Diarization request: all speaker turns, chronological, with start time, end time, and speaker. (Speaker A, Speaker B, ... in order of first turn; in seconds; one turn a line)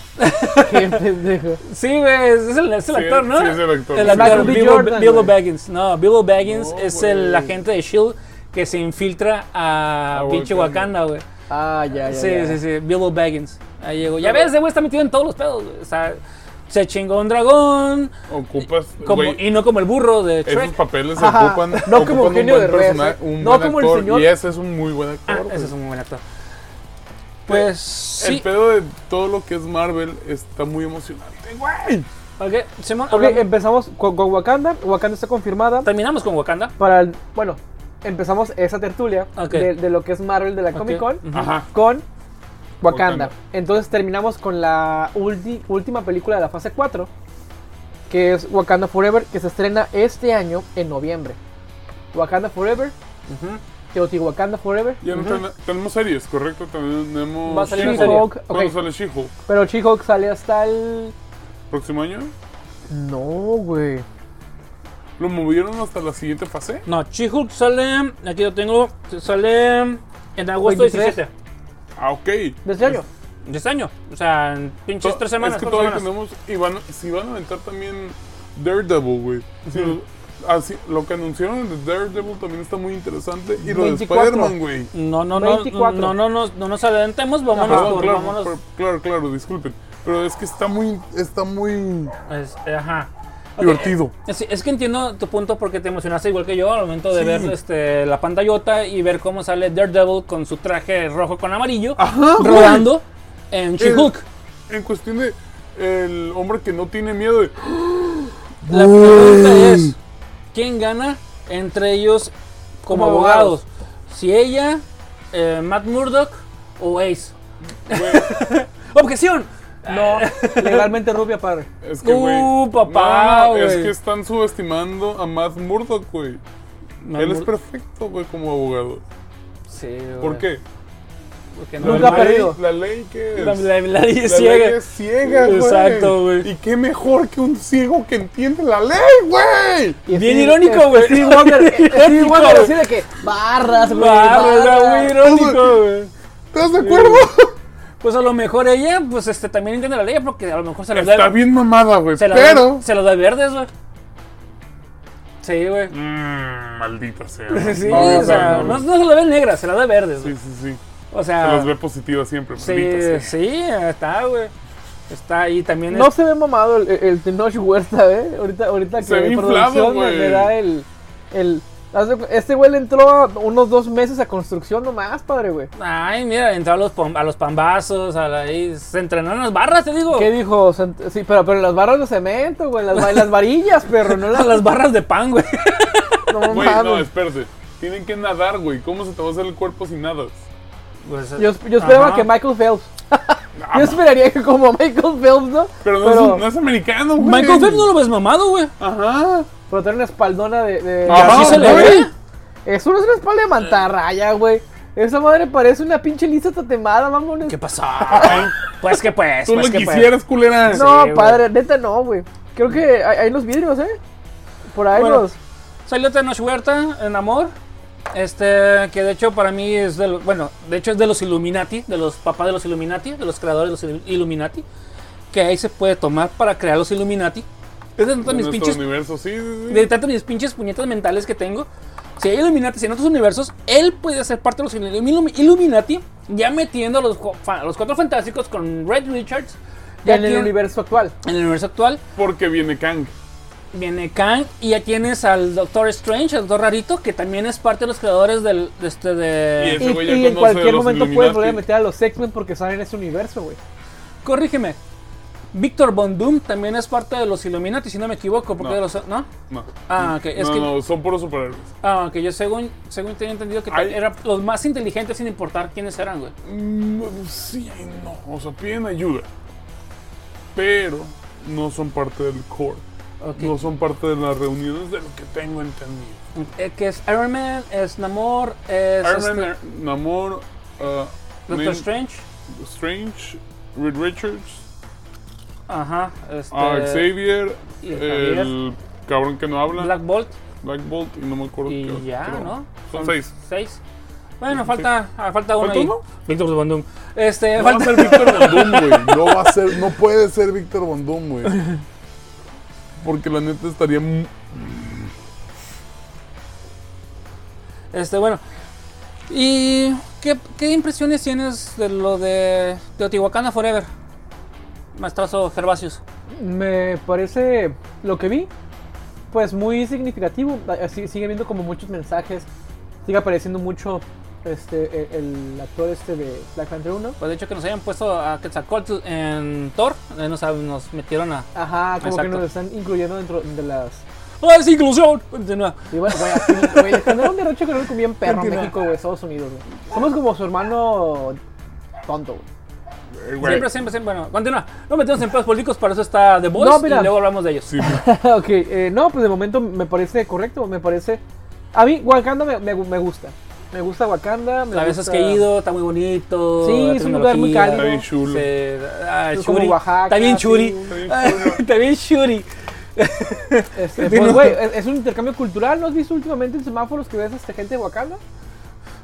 Speaker A: 0.2-1.0
Speaker B: 0.6-1.6
Speaker A: 1.6-11.2
Speaker C: 2.9-4.8
Speaker B: 4.0-5.3
Speaker C: 6.4-7.6
Speaker C: 10.1-10.9
Speaker B: 11.5-12.6
Speaker A: 12.1-18.1
Speaker C: 14.2-14.5
Speaker C: 18.3-19.4
Speaker A: 19.0-20.8
Speaker C: 20.4-25.7
Speaker B: 21.1-24.3
Speaker A: 25.3-26.2
Speaker A: 27.5-28.5
Speaker C: 27.5-32.1
Speaker A: 32.4-33.5
Speaker B: 33.1-35.9
Speaker A: 35.8-36.7
Speaker B: 36.8-42.0
Speaker A: 39.4-39.7
Speaker A: 40.7-41.5
Speaker C: 41.3-41.7
Speaker B: 42.8-47.1
Speaker C: 42.9-43.3
Speaker B: 48.1-51.4
Speaker B: 52.1-52.9
Speaker A: 53.3-53.6
Speaker B: 53.9-55.4
Speaker C: 55.0-59.3
Speaker B: 57.5-58.7
Speaker A: 57.6-58.3
Speaker B: 59.5-61.1
Speaker C: 61.7-62.3
Speaker B: 62.9-64.0
Speaker C: 65.2-66.8
Speaker A: 66.8-71.3
Speaker B: 70.6-71.2
Speaker C: 72.0-73.0
Speaker B: 72.6-73.0
Speaker A: 73.4-76.1
Speaker C: 75.0-84.9
Speaker B: 83.6-84.5
Speaker A: 84.9-88.5
Speaker B: 85.3-86.2
Speaker B: 87.5-88.0
Speaker C: 87.6-92.1
Speaker A: 92.3-104.2
Speaker C: 93.6-94.1
Speaker C: 97.1-97.5
Speaker C: 102.0-102.9
Speaker C: 103.8-104.1
Speaker C: 104.7-109.9
Speaker A: 108.7-110.0
Speaker A: 110.5-112.3
Speaker A: 112.8-117.3
Speaker B: 112.9-113.6
Speaker C: 117.8-118.3
Speaker A: 117.9-120.9
Speaker B: 119.9-121.7
Speaker C: 121.8-126.4
Speaker A: 122.0-123.9
Speaker A: 127.0-127.5
Speaker C: 127.1-129.0
Speaker A: 129.7-130.4
Speaker C: 130.2-130.6
Speaker A: 131.5-132.5
Speaker C: 131.8-140.0
Speaker B: 131.8-132.6
Speaker A: 133.3-136.5
Speaker B: 140.1-145.2
Speaker A: 140.1-142.8
Speaker A: 143.9-146.1
Speaker C: 145.1-145.8
Speaker C: 146.5-147.6
Speaker A: 146.8-147.2
Speaker A: 148.0-151.4
Speaker C: 150.9-152.8
Speaker A: 152.2-153.7
Speaker A: 155.4-155.9
Speaker C: 155.9-158.9
Speaker A: 157.5-160.3
Speaker B: 157.8-158.7
Speaker C: 160.2-160.8
Speaker A: 161.1-161.7
Speaker C: 161.4-163.3
Speaker A: 162.6-164.5
Speaker A: 165.1-166.1
Speaker B: 165.9-175.7
Speaker C: 169.0-170.5
Speaker A: 175.8-180.3
Speaker B: 180.1-184.7
Speaker A: 182.9-183.3
Speaker A: 183.9-186.4
Speaker B: 186.3-187.1
Speaker C: 186.5-190.4
Speaker A: 191.1-192.3
Speaker B: 191.4-196.4
Speaker C: 193.5-194.0
Speaker C: 195.8-197.9
Speaker A: 197.2-198.7
Speaker C: 198.8-199.5
Speaker B: 199.7-202.1
Speaker C: 201.1-202.1
Speaker A: 201.1-202.1
Speaker B: 202.7-208.4
Speaker A: 207.4-210.1
Speaker C: 208.1-208.6
Speaker C: 209.4-210.9
Speaker A: 210.7-211.4
Speaker B: 210.7-214.0
Speaker B: 214.7-215.4
Speaker A: 214.9-215.2
Speaker A: 215.8-217.5
Speaker A: 218.1-224.6
Speaker A: 225.3-227.4
Speaker A: 228.0-228.8
Speaker C: 228.2-229.9
Speaker A: 229.7-240.5
Speaker B: 240.0-241.1
Speaker A: 241.2-242.0
Speaker C: 242.2-243.1
Speaker A: 243.7-249.9
Speaker C: 249.6-251.7
Speaker B: 249.8-253.6
Speaker A: 254.2-254.8
Speaker A: 255.5-259.3
Speaker C: 259.5-261.7
Speaker A: 259.9-260.7
Speaker A: 261.8-266.3
Speaker C: 263.7-264.0
Speaker C: 266.4-269.3
Speaker C: 270.5-272.8
Speaker A: 273.2-273.6
Speaker C: 273.4-276.2
Speaker A: 276.3-279.5
Speaker C: 279.0-281.9
Speaker A: 281.5-282.2
Speaker C: 282.5-284.6
Speaker A: 285.7-287.1
Speaker C: 286.5-289.9
Speaker A: 287.8-288.5
Speaker A: 289.7-290.3
Speaker C: 290.6-293.3
Speaker A: 291.7-293.8
Speaker A: 294.4-299.3
Speaker C: 294.5-294.9
Speaker C: 295.6-296.0
Speaker C: 297.6-301.6
Speaker C: 303.0-305.1
Speaker A: 307.9-308.4
Speaker A: 309.3-313.9
Speaker A: 314.9-316.0
Speaker B: 316.4-318.5
Speaker B: 319.3-322.5
Speaker B: 323.0-327.2
Speaker A: 327.2-331.5
Speaker B: 331.5-334.0
Speaker A: 332.0-332.4
Speaker A: 334.4-337.3
Speaker B: 335.9-341.4
Speaker A: 338.2-338.7
Speaker B: 342.1-342.4
Speaker C: 343.2-343.7
Speaker A: 343.4-347.7
Speaker B: 346.5-347.2
Speaker C: 347.7-348.0
Speaker B: 347.8-351.2
Speaker B: 351.7-355.4
Speaker A: 354.7-364.6
Speaker B: 356.6-358.0
Speaker C: 357.7-358.5
Speaker B: 359.3-361.0
Speaker C: 360.9-361.6
Speaker B: 363.8-368.2